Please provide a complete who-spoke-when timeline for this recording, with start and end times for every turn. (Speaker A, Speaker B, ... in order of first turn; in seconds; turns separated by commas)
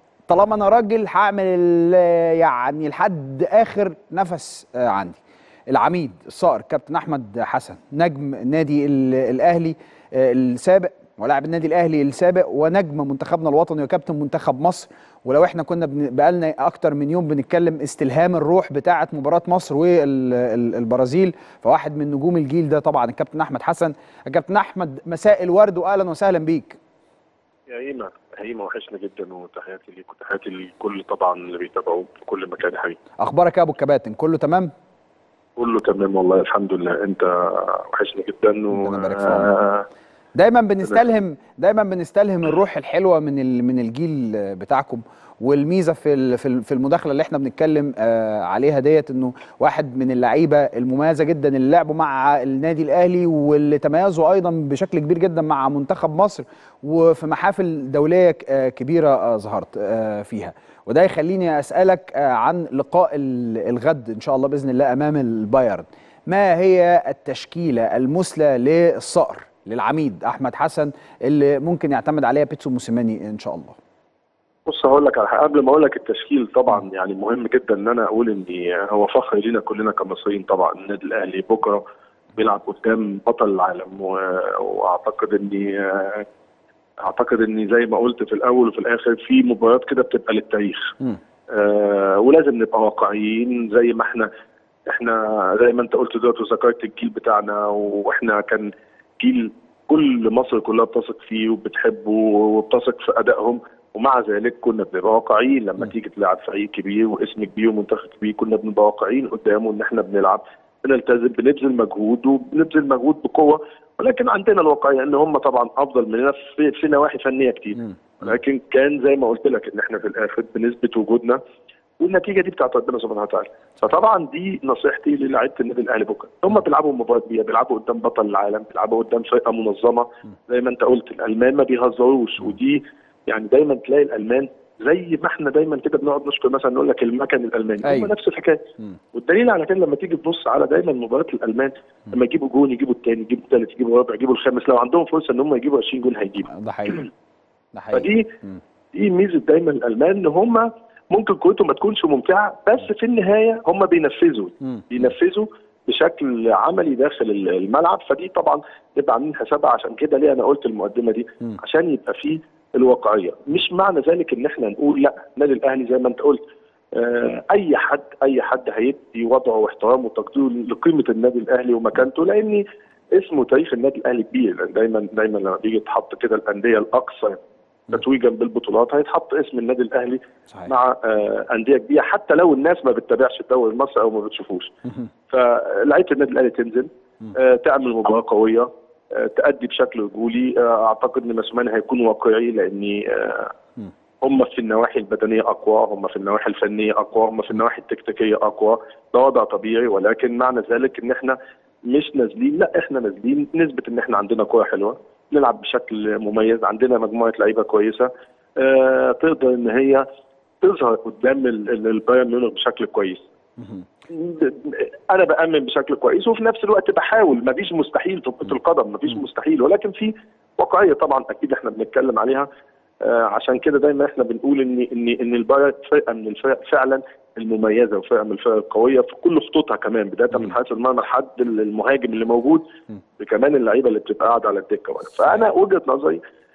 Speaker A: 0.3-5.2, Speaker A: 5.7-26.8, Speaker B: 27.7-33.0, Speaker A: 33.2-34.7, Speaker B: 35.6-39.9, Speaker A: 38.7-39.5, Speaker A: 40.4-73.8, Speaker B: 74.7-81.8, Speaker B: 82.3-86.2, Speaker B: 87.0-91.0, Speaker B: 91.5-94.3, Speaker B: 94.9-121.4, Speaker B: 122.0-138.6, Speaker A: 137.8-138.1, Speaker B: 139.1-147.0, Speaker A: 146.5-147.1, Speaker A: 147.7-148.6, Speaker B: 147.9-148.3, Speaker B: 148.9-166.4, Speaker B: 166.9-177.4, Speaker B: 177.9-184.7, Speaker B: 185.3-193.5, Speaker B: 194.2-201.4, Speaker B: 201.9-210.0, Speaker B: 210.6-213.2, Speaker B: 214.1-222.5, Speaker B: 223.0-232.6, Speaker B: 233.2-236.2